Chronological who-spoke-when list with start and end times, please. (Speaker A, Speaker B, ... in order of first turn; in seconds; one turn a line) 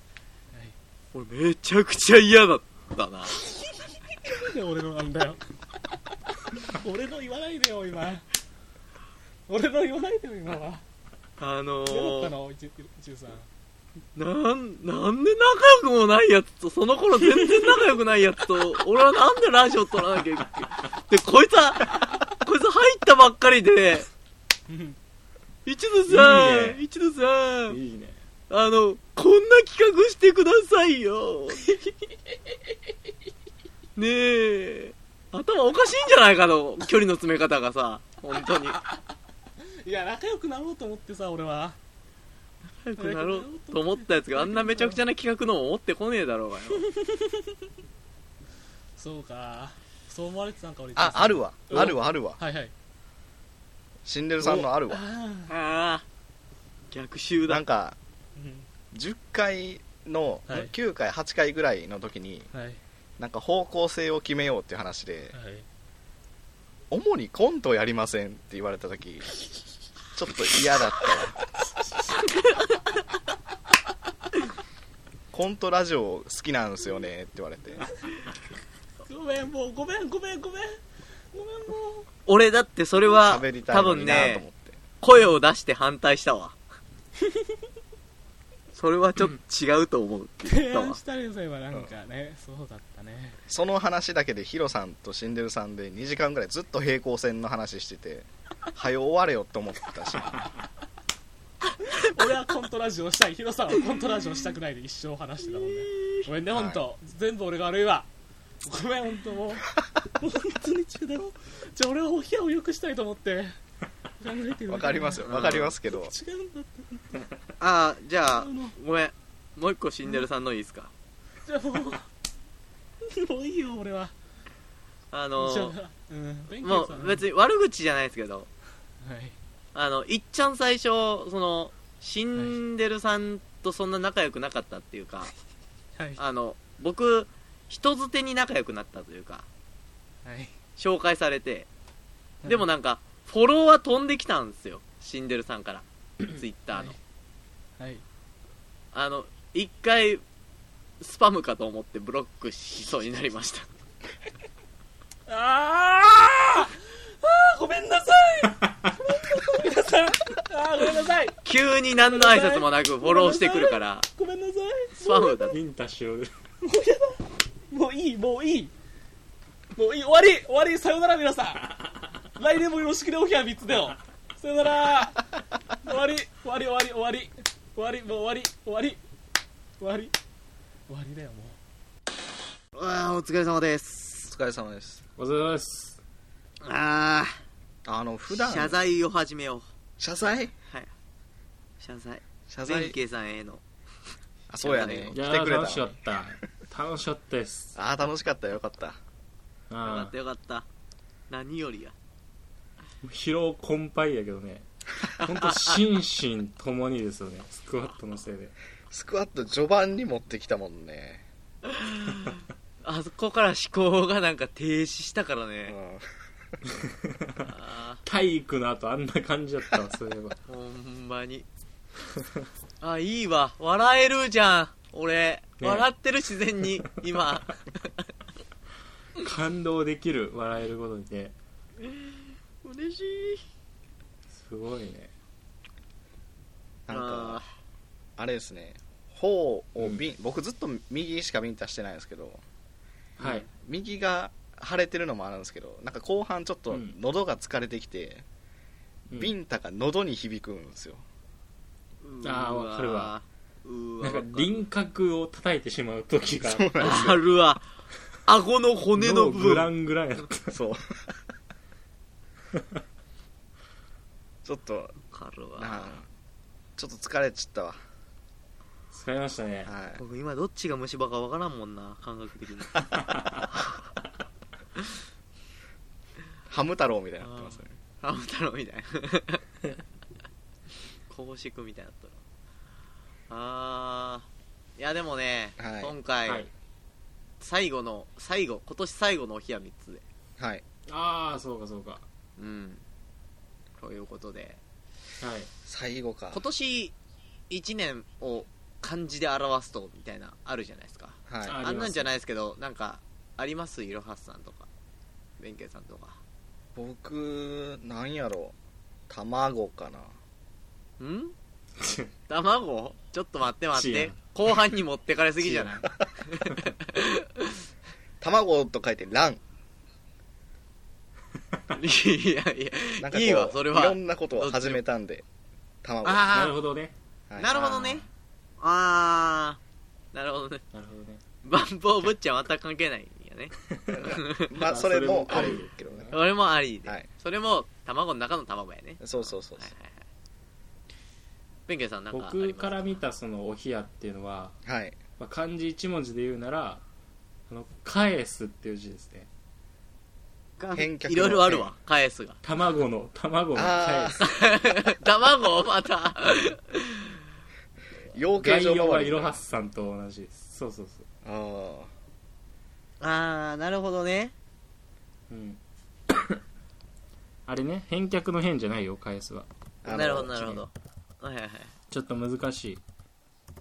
Speaker A: 1.1-3.3
Speaker B: 3.4-5.4
Speaker B: 6.5-8.2
Speaker B: 9.5-10.8
Speaker A: 11.4-12.3
Speaker B: 11.9-13.5
Speaker A: 14.2-24.1
Speaker B: 24.7-25.0
Speaker A: 25.6-27.8
Speaker C: 26.1-26.8
Speaker C: 27.7-28.2
Speaker A: 28.5-31.7
Speaker A: 34.0-38.8
Speaker B: 39.8-41.8
Speaker A: 42.8-46.9
Speaker B: 43.0-45.0
Speaker B: 47.0-47.3
Speaker B: 49.0-52.7
Speaker D: 51.0-52.4
Speaker D: 54.0-55.0
Speaker B: 54.5-55.5
Speaker A: 55.5-56.0
Speaker A: 56.9-57.6
Speaker D: 57.5-58.0
Speaker B: 58.4-58.7
Speaker D: 58.9-62.5
Speaker B: 60.5-60.7
Speaker B: 62.5-62.8
Speaker D: 63.2-65.3
Speaker B: 65.3-65.7
Speaker D: 66.9-69.4
Speaker D: 70.1-71.4
Speaker D: 75.3-77.9
Speaker B: 79.0-80.8
Speaker B: 81.3-82.1
Speaker A: 82.3-84.4
Speaker D: 83.1-84.8
Speaker A: 85.0-86.6
Speaker A: 88.7-91.0
Speaker B: 90.4-93.4
Speaker D: 93.5-100.4
Speaker B: 101.8-108.1
Speaker A: 105.6-106.2
Speaker D: 106.5-106.8
Speaker B: 108.6-113.5
Speaker B: 114.2-115.3
Speaker D: 114.7-116.1
Speaker A: 115.2-115.7
Speaker B: 116.0-117.2
Speaker A: 117.6-120.9
Speaker B: 118.3-118.7
Speaker B: 121.5-122.0
Speaker B: 123.0-124.1
Speaker A: 125.1-125.7
Speaker B: 125.4-127.2
Speaker A: 126.6-128.5
Speaker B: 129.0-129.3
Speaker A: 129.7-135.3
Speaker B: 135.9-136.2
Speaker A: 136.2-139.5
Speaker B: 140.2-140.5
Speaker A: 140.8-141.7
Speaker A: 142.4-147.0
Speaker B: 146.7-147.0
Speaker B: 147.8-148.0
Speaker A: 148.9-150.2
Speaker A: 151.0-153.7
Speaker B: 155.3-161.4
Speaker A: 161.4-164.1
Speaker B: 162.0-165.6
Speaker A: 164.9-165.6
Speaker C: 165.5-166.3
Speaker B: 166.6-168.7
Speaker B: 169.7-171.8
Speaker B: 172.3-175.2
Speaker B: 175.8-179.0
Speaker B: 179.8-180.1
Speaker B: 180.9-181.6
Speaker A: 182.7-184.3
Speaker D: 184.3-185.0
Speaker C: 185.2-186.0
Speaker A: 186.6-187.4
Speaker D: 187.8-188.8
Speaker A: 188.3-189.7
Speaker D: 190.0-190.5
Speaker A: 191.8-193.6
Speaker D: 192.5-192.9
Speaker D: 194.5-195.9
Speaker A: 194.6-195.2
Speaker C: 195.1-197.7
Speaker D: 197.7-199.0
Speaker C: 199.7-200.2
Speaker A: 199.8-200.7
Speaker A: 201.3-201.9
Speaker C: 203.0-204.7
Speaker C: 205.2-208.5
Speaker A: 205.3-205.7
Speaker D: 208.9-211.2
Speaker A: 211.8-215.8
Speaker D: 215.7-216.0
Speaker C: 217.1-217.5
Speaker A: 217.5-218.0
Speaker C: 218.0-220.4
Speaker A: 220.5-221.5
Speaker A: 222.8-228.0
Speaker C: 225.6-225.9
Speaker C: 229.2-231.3
Speaker A: 231.8-233.4
Speaker C: 234.3-235.1
Speaker D: 236.9-237.4
Speaker A: 236.9-237.5
Speaker D: 238.2-242.4
Speaker C: 243.2-243.5
Speaker A: 243.2-243.5
Speaker D: 243.6-248.2
Speaker C: 246.7-246.9
Speaker D: 249.2-251.0
Speaker A: 252.0-254.6
Speaker C: 252.2-253.1
Speaker C: 254.0-256.8
Speaker D: 256.4-257.2
Speaker A: 256.8-257.6
Speaker A: 258.3-259.7
Speaker C: 258.9-260.6
Speaker D: 260.5-261.1
Speaker D: 264.4-265.0
Speaker A: 265.1-266.0
Speaker D: 265.6-266.1
Speaker D: 266.8-267.8
Speaker C: 268.9-269.7
Speaker D: 269.6-270.0
Speaker A: 269.9-272.9
Speaker D: 276.5-277.6
Speaker A: 277.2-279.4
Speaker A: 281.1-282.2
Speaker A: 283.3-286.5
Speaker D: 285.6-285.9
Speaker A: 287.4-290.0
Speaker C: 290.9-292.0
Speaker A: 292.4-292.8
Speaker A: 293.8-294.6
Speaker C: 295.2-295.5
Speaker D: 295.6-296.4
Speaker A: 296.3-296.9
Speaker A: 297.5-304.7
Speaker D: 301.3-301.6
Speaker C: 301.4-302.1
Speaker A: 305.4-306.2
Speaker D: 306.7-308.5
Speaker D: 309.1-310.1
Speaker A: 311.0-311.3
Speaker C: 311.8-312.1
Speaker A: 312.3-317.5
Speaker C: 313.7-314.5
Speaker C: 315.4-315.8
Speaker D: 318.2-319.4
Speaker A: 321.7-324.8
Speaker D: 323.0-325.2
Speaker D: 325.8-326.4
Speaker A: 326.0-326.5
Speaker C: 326.3-326.9
Speaker D: 327.3-328.0
Speaker A: 327.4-328.0
Speaker A: 328.6-329.6
Speaker A: 330.1-330.6
Speaker C: 330.7-331.2
Speaker A: 331.4-333.5
Speaker D: 333.9-336.2
Speaker A: 334.0-334.5
Speaker C: 334.6-336.2
Speaker A: 336.1-340.0
Speaker D: 339.0-339.7
Speaker A: 341.7-343.0
Speaker C: 342.1-344.6
Speaker D: 344.6-345.0
Speaker C: 345.2-346.8
Speaker C: 347.5-349.3
Speaker A: 350.6-352.4
Speaker D: 350.7-351.7
Speaker C: 352.4-354.2
Speaker D: 353.5-354.2
Speaker A: 354.3-357.1
Speaker D: 358.1-359.4
Speaker C: 358.3-361.0
Speaker D: 361.2-361.9
Speaker A: 363.0-364.3
Speaker C: 365.3-366.4
Speaker C: 367.5-369.5
Speaker D: 369.8-370.4
Speaker A: 369.9-371.7
Speaker C: 371.9-372.8